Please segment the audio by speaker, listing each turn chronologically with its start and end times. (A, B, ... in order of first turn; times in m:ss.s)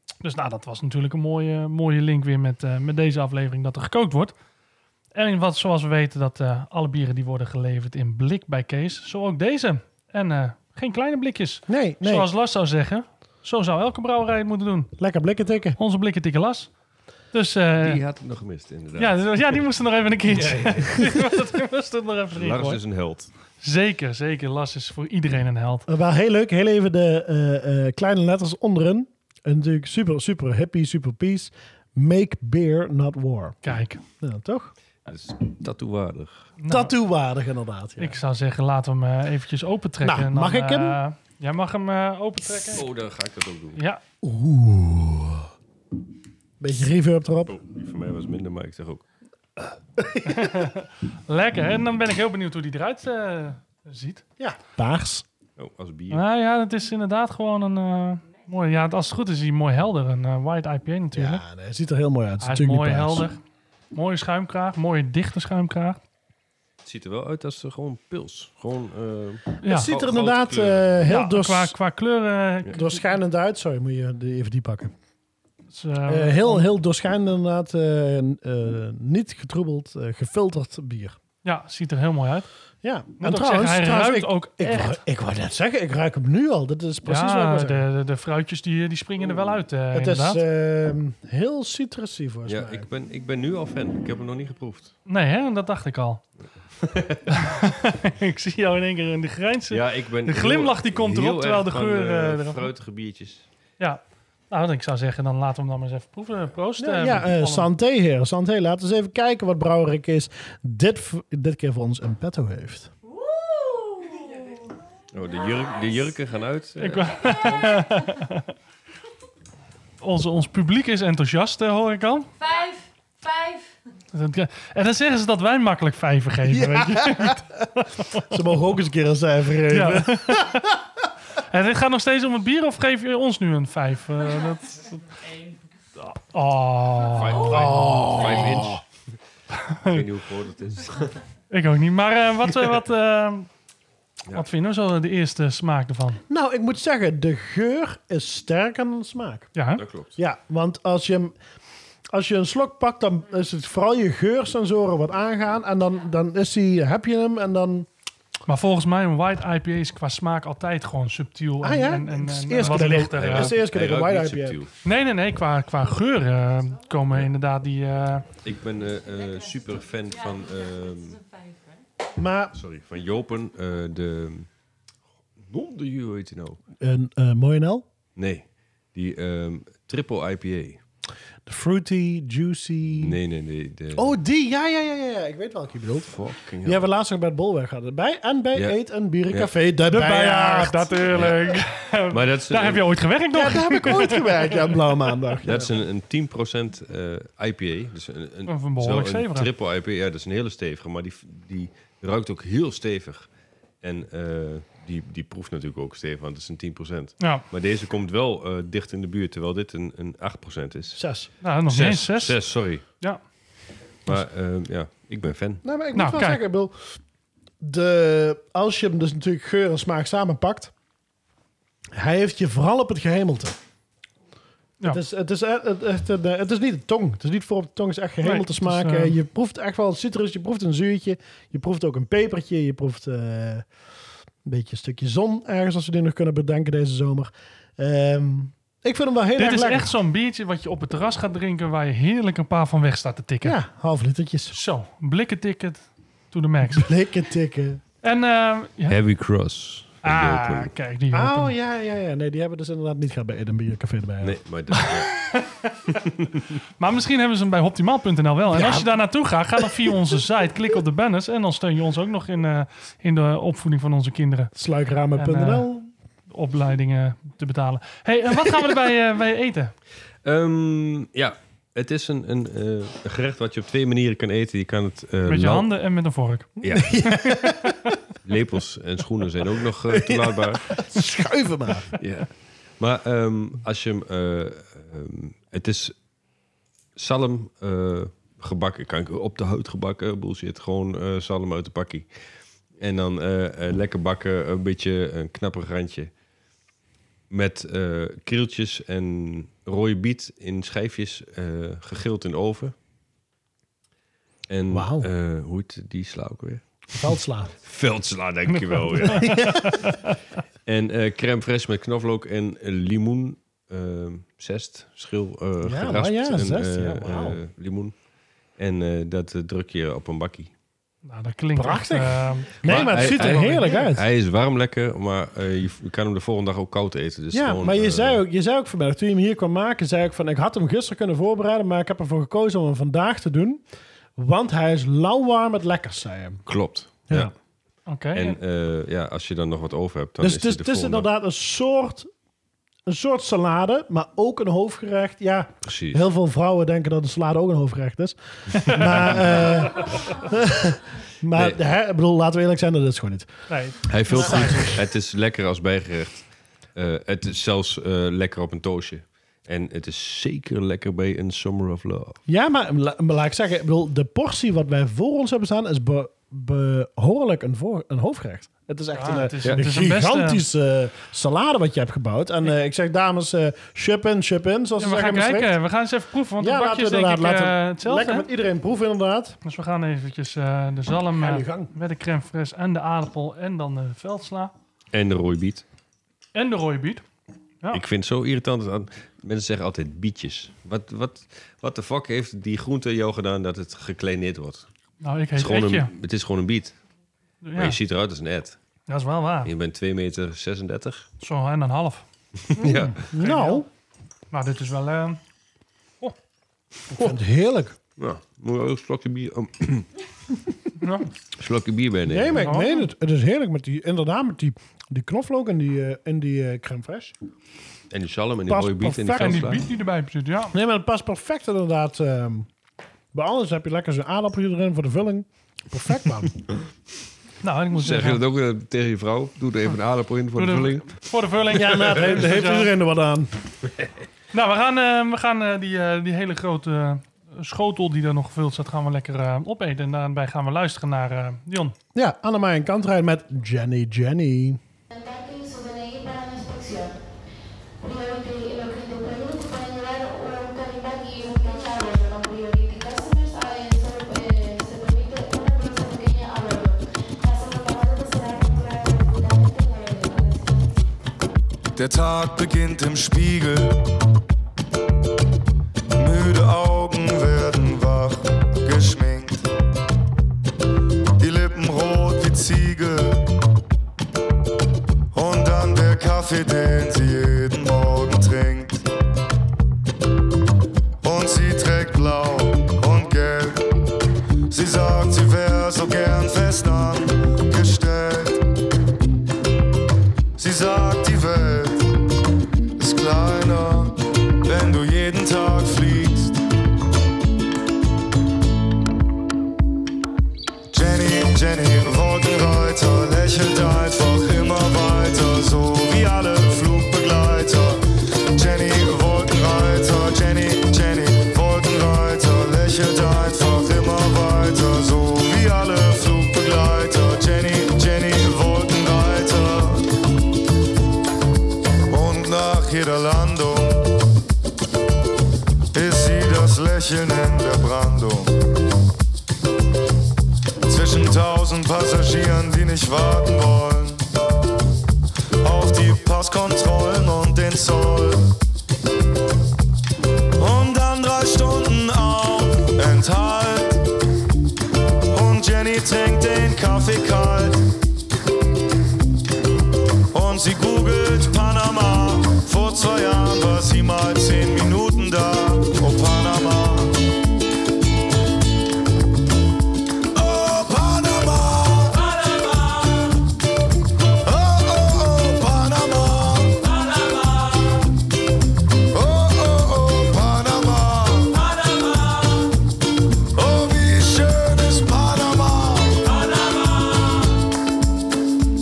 0:00.2-0:04.3 A
0:05.2-0:14.9 A
0:11.7-0:12.3 B
0:15.0-0:15.8 B
0:15.8-0:16.7 A
0:17.3-0:18.0 A
0:17.8-0:19.6 C
0:19.0-0:22.8 A
0:20.3-0:21.0 C
0:22.3-0:23.3 C
0:23.6-0:25.9 A
0:25.9-0:34.7 B
0:33.6-0:34.0 A
0:35.1-0:36.5 C
0:36.6-0:36.9 A
0:36.7-0:38.2 B
0:38.0-0:42.9 A
0:40.0-0:41.0 B
0:42.7-0:43.8 C
0:43.8-0:44.0 A
0:44.2-0:45.5 B
0:46.6-0:47.6 B
0:47.5-0:49.0 C
0:50.0-0:50.7 B
0:50.3-0:54.2 A
0:54.4-0:55.2 B
0:55.6-0:56.2 C
0:56.1-1:01.4 A
1:01.1-1:03.3 B
1:02.4-1:03.4 A
1:03.9-1:06.0 A
1:06.8-1:11.0 C
1:09.6-1:09.9 A
1:09.6-1:11.8 B
1:11.1-1:12.9 A
1:12.7-1:14.9 B
1:15.7-1:16.7 A
1:16.1-1:21.2 B
1:21.4-1:22.5 A
1:22.8-1:27.9 B
1:23.2-1:25.0 A
1:27.1-1:30.4 A
1:29.9-1:32.9 B
1:32.5-1:34.9 C
1:35.1-1:36.2 A
1:36.8-1:37.3 C
1:37.3-1:42.6 A
1:39.7-1:43.5 C
1:44.5-1:47.7 A
1:46.8-1:52.9 B
1:53.0-1:54.7 D
1:55.1-1:57.8 C
1:56.8-1:58.5 A
2:00.0-2:02.3 A
2:02.4-2:03.7 D
2:04.1-2:08.4 A
2:06.5-2:07.6 B
2:08.2-2:10.8 B
2:09.7-2:10.7 A
2:11.5-2:15.1 A
2:16.0-2:17.8 A
2:17.1-2:18.8 C
2:17.5-2:18.8 B
2:19.8-2:21.2 C
2:21.5-2:23.5 A
2:24.3-2:26.2 A
2:26.3-2:29.5 B
2:29.6-2:29.8 A
2:29.8-2:30.1 C
2:30.2-2:31.3 B
2:32.1-2:37.9 B
2:38.5-2:43.6 A
2:41.6-2:44.6 B
2:42.6-2:44.7 C
2:44.8-2:48.3 A
2:48.4-2:51.2 C
2:50.1-2:51.8 D
2:52.2-2:52.5 B
2:52.5-2:54.5 C
2:55.4-2:56.6 C
2:56.8-2:57.9 B
2:58.2-3:00.8 C
3:01.5-3:03.2 B
3:03.0-3:04.2 C
3:03.9-3:06.1 B
3:06.0-3:06.8 C
3:06.6-3:11.1 B
3:09.9-3:14.8 A
3:11.1-3:11.6 C
3:12.1-3:12.9 C
3:13.3-3:15.7 B
3:15.4-3:23.3 C
3:18.5-3:19.5 A
3:23.8-3:31.0 C
3:27.2-3:27.4 A
3:31.0-3:31.3 B
3:31.4-3:32.4 A
3:31.7-3:32.8 C
3:32.9-3:33.2 A
3:34.1-3:35.6 C
3:35.6-3:36.8 B
3:36.0-3:36.4 A
3:37.6-3:40.7 B
3:41.9-3:43.6 B
3:44.8-3:53.6 B
3:48.2-3:49.2 A
3:54.4-3:59.9 B
3:59.4-4:03.6 A
4:03.4-4:04.6 B
4:04.5-4:06.9 A
4:06.7-4:07.8 B
4:08.0-4:09.0 A
4:08.9-4:10.7 C
4:10.0-4:11.5 A
4:11.1-4:14.4 B
4:14.2-4:15.2 C
4:15.1-4:15.8 A
4:16.8-4:24.5 A
4:18.5-4:18.9 B
4:19.6-4:20.0 B
4:24.6-4:25.9 B
4:25.2-4:29.7 A
4:30.2-4:35.7 C
4:35.3-4:36.6 A
4:36.6-4:37.0 C
4:36.6-4:37.7 B
4:37.1-4:37.9 A
4:38.2-4:40.8 C
4:39.9-4:41.9 B
4:42.0-4:45.9 C
4:47.0-4:52.1 C
4:52.8-4:56.1 C
4:57.3-5:02.8 C
5:04.5-5:06.9 C
5:04.7-5:05.1 B
5:07.0-5:07.6 B
5:07.6-5:09.8 C
5:08.5-5:10.1 A
5:09.1-5:09.8 B
5:10.7-5:18.0 C
5:15.6-5:17.4 B
5:18.6-5:20.5 C
5:21.0-5:23.8 A
5:21.6-5:24.1 B
5:22.6-5:28.2 C
5:27.3-5:33.6 B
5:34.2-5:36.4 B
5:36.5-5:37.3 C
5:37.9-5:38.4 A
5:38.1-5:41.1 C
5:40.2-5:42.1 B
5:42.9-5:53.3 B
5:45.6-5:46.0 C
5:48.7-5:49.1 A
5:53.5-5:54.6 A
5:53.9-6:02.2 C
5:54.1-5:54.7 B
6:02.3-6:15.6 B
6:09.0-6:10.4 A
6:14.8-6:18.3 A
6:16.4-6:19.4 B
6:19.4-6:24.5 A
6:21.2-6:21.7 B
6:24.9-6:25.6 C
6:26.4-6:27.0 A
6:27.7-6:34.7 C
6:35.0-6:35.9 A
6:35.4-6:36.8 C
6:37.4-6:37.8 A
6:37.6-6:38.6 C
6:38.9-6:39.5 A
6:39.4-6:41.1 C
6:41.2-6:42.0 A
6:42.5-6:43.1 C
6:42.6-6:43.6 A
6:43.1-6:43.7 B
6:44.3-6:45.2 A
6:46.9-6:47.8 B
6:48.0-6:49.9 C
6:50.8-6:51.1 A
6:51.4-6:52.5 C
6:52.1-6:57.2 B
6:52.4-6:52.9 A
6:57.9-6:59.7 C
6:58.5-6:59.6 B
6:59.2-7:00.5 A
7:00.5-7:02.5 B
7:03.1-7:06.4 B
7:07.4-7:08.2 A
7:07.8-7:11.0 C
7:10.4-7:12.7 A
7:11.5-7:13.3 B
7:14.3-7:21.8 A
7:22.0-7:24.6 B
7:24.9-7:27.0 E
7:27.8-7:40.7 E
7:41.8-7:43.8 F
7:46.0-7:49.5 F
7:51.2-7:53.3 F
7:55.1-7:58.8 F
8:01.0-8:03.7 F
8:04.5-8:08.4 F
8:10.4-8:11.9 F
8:12.8-8:16.4 F
8:20.7-8:39.9 F
8:41.9-8:43.9 F
8:45.7-8:48.4 F
8:50.7-8:54.1 F
8:55.4-8:58.3 F
9:00.4-9:03.8 F
9:05.1-9:07.7 F
9:10.1-9:17.0 F
9:20.1-9:23.1 F
9:24.2-9:27.8 F
9:28.9-9:32.2 F
9:33.4-9:37.0 F